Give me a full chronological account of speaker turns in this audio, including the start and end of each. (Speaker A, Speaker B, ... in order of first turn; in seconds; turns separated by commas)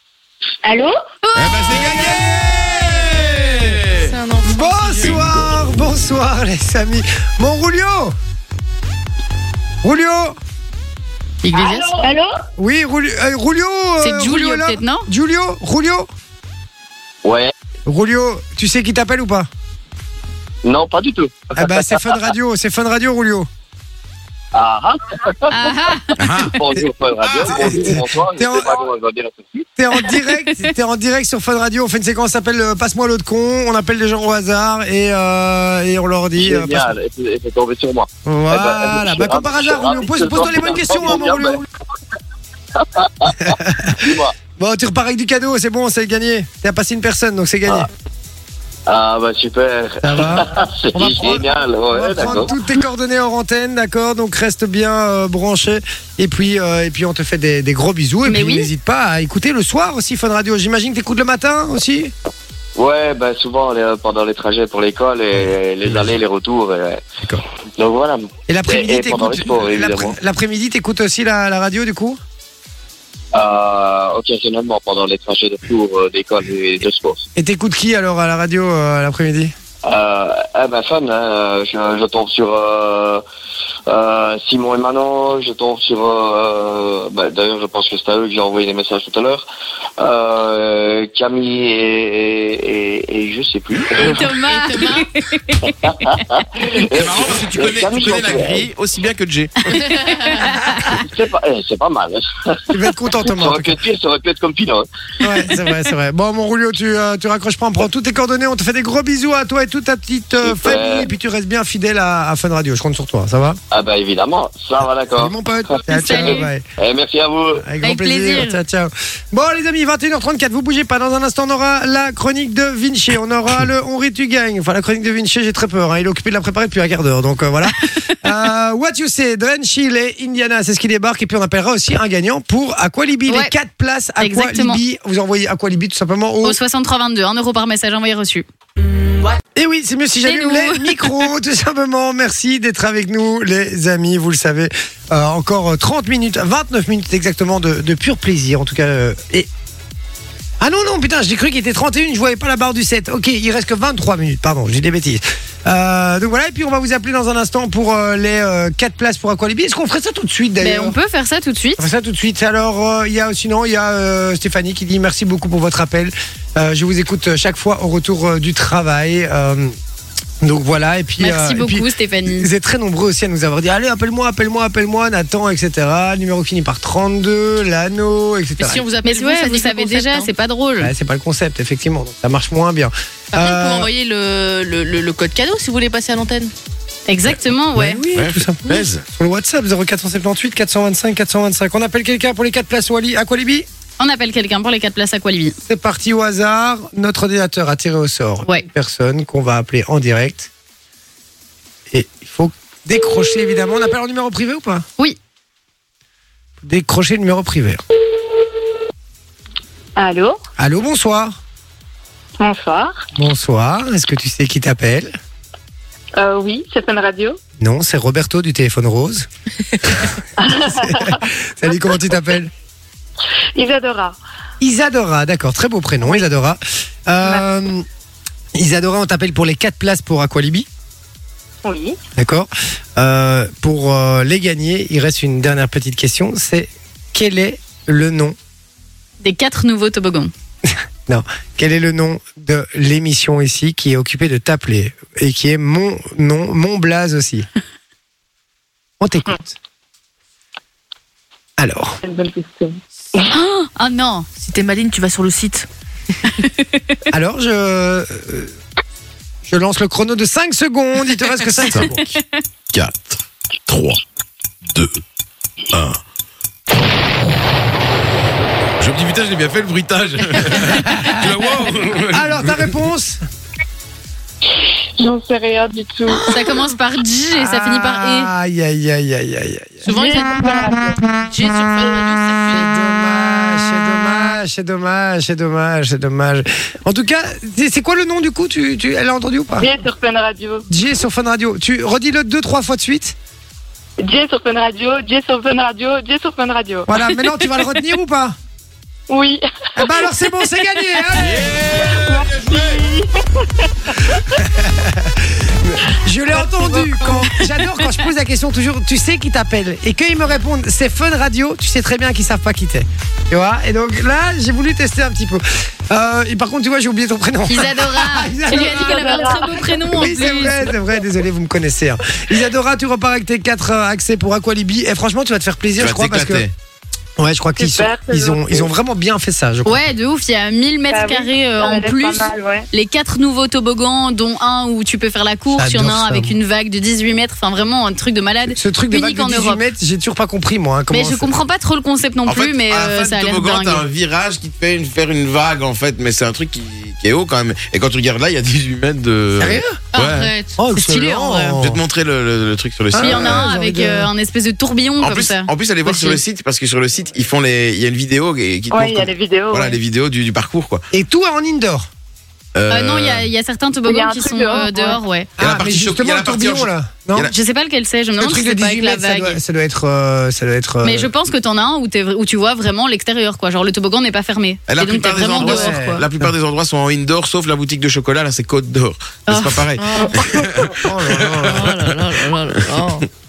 Speaker A: 0.6-0.9, Speaker B: 1.2-2.2, Speaker C: 1.4-4.1, Speaker D: 1.7-3.8, Speaker E: 3.9-5.3, Speaker D: 4.4-8.1, Speaker D: 9.8-10.4, Speaker E: 11.4-12.1, Speaker A: 11.5-12.3, Speaker D: 12.6-16.1, Speaker B: 14.0-15.1, Speaker F: 17.2-17.5, Speaker D: 17.9-19.5, Speaker F: 20.6-22.2, Speaker D: 21.5-23.5, Speaker F: 24.5-25.7, Speaker B: 25.5-26.4, Speaker C: 26.2-28.0, Speaker F: 26.3-29.7, Speaker D: 27.5-28.8, Speaker D: 29.8-36.9, Speaker B: 29.9-30.7, Speaker F: 36.4-41.6, Speaker D: 38.2-41.6, Speaker F: 42.7-44.3, Speaker D: 43.4-47.9, Speaker F: 48.9-52.5, Speaker D: 50.0-62.1, Speaker B: 58.2-58.7, Speaker F: 62.8-67.0, Speaker F: 67.8-70.2, Speaker D: 68.5-72.2, Speaker F: 73.3-77.2, Speaker D: 77.3-79.5, Speaker F: 79.8-83.2, Speaker F: 83.9-89.5, Speaker F: 90.0-94.2, Speaker E: 94.0-95.1, Speaker B: 94.0-96.2, Speaker F: 95.8-98.7, Speaker C: 96.9-99.8, Speaker B: 99.8-101.0, Speaker E: 99.8-100.5, Speaker F: 100.9-102.6, Speaker D: 102.7-103.8, Speaker F: 103.2-104.9, Speaker D: 105.2-113.6, Speaker F: 110.4-111.1, Speaker F: 113.7-117.7, Speaker D: 115.1-116.7, Speaker B: 115.9-116.5, Speaker D: 117.6-136.6, Speaker B: 117.8-118.6, Speaker B: 133.3-133.5, Speaker B: 134.2-134.8, Speaker B: 136.4-138.4, Speaker D: 139.5-149.5, Speaker B: 140.2-141.3, Speaker D: 150.6-160.9, Speaker B: 160.6-161.9, Speaker D: 161.8-169.7, Speaker D: 170.4-178.8, Speaker B: 171.2-172.5, Speaker E: 178.6-180.3, Speaker B: 179.0-180.9, Speaker D: 180.8-183.9, Speaker E: 183.3-186.5, Speaker B: 187.1-188.0, Speaker D: 187.7-193.7, Speaker C: 188.1-189.0, Speaker B: 194.0-195.6, Speaker D: 195.7-200.5, Speaker D: 201.9-204.8, Speaker D: 206.6-207.8, Speaker A: 210.0-210.4, Speaker D: 210.6-211.3, Speaker A: 212.4-213.0, Speaker D: 213.1-215.1, Speaker A: 216.2-217.4, Speaker D: 217.6-219.3, Speaker D: 219.8-222.5, Speaker A: 220.4-221.2, Speaker A: 223.6-224.2, Speaker D: 224.6-227.8, Speaker D: 228.5-230.7, Speaker A: 231.6-232.0, Speaker D: 232.2-238.3, Speaker B: 239.2-240.3, Speaker D: 241.1-247.5, Speaker D: 249.0-249.6, Speaker D: 251.6-252.0, Speaker A: 252.0-253.2, Speaker B: 253.2-254.3, Speaker E: 254.4-255.7, Speaker D: 257.1-258.5, Speaker D: 259.4-262.1, Speaker C: 262.7-264.0, Speaker C: 264.7-265.0, Speaker C: 265.7-266.0, Speaker C: 268.8-272.7, Speaker D: 270.9-271.2, Speaker D: 272.1-273.2, Speaker A: 275.0-276.3, Speaker B: 276.2-278.3, Speaker D: 277.3-279.9, Speaker E: 279.9-280.4, Speaker A: 279.9-281.0, Speaker E: 281.3-282.7, Speaker D: 282.5-289.7, Speaker A: 289.6-290.6, Speaker D: 290.7-293.1, Speaker A: 294.0-296.9, Speaker D: 296.9-298.4, Speaker A: 299.1-300.4, Speaker D: 299.8-301.6, Speaker C: 301.1-302.8, Speaker A: 301.4-304.3, Speaker D: 304.4-326.4, Speaker A: 306.3-307.2, Speaker B: 317.5-320.7, Speaker A: 318.5-319.6, Speaker C: 325.8-326.5, Speaker D: 327.2-329.8, Speaker A: 327.6-328.7, Speaker B: 329.6-339.6, Speaker A: 330.9-332.7, Speaker D: 335.5-336.4, Speaker D: 338.5-341.3, Speaker B: 340.9-343.9, Speaker C: 342.2-350.3, Speaker D: 349.4-349.8, Speaker E: 349.9-350.6, Speaker D: 350.6-351.8, Speaker B: 350.7-351.6, Speaker C: 351.6-353.4, Speaker D: 352.9-354.1, Speaker B: 352.9-356.2, Speaker C: 355.0-360.8, Speaker A: 358.7-359.8, Speaker D: 360.9-361.9, Speaker C: 362.5-363.3, Speaker B: 362.7-365.3, Speaker A: 363.9-365.0, Speaker D: 365.4-367.3, Speaker C: 365.4-367.3, Speaker B: 367.2-369.4, Speaker D: 368.2-371.1, Speaker B: 370.8-376.0, Speaker C: 374.7-381.9, Speaker D: 375.4-376.3, Speaker B: 379.3-379.7, Speaker E: 379.8-380.4, Speaker D: 380.2-381.7, Speaker E: 381.4-383.1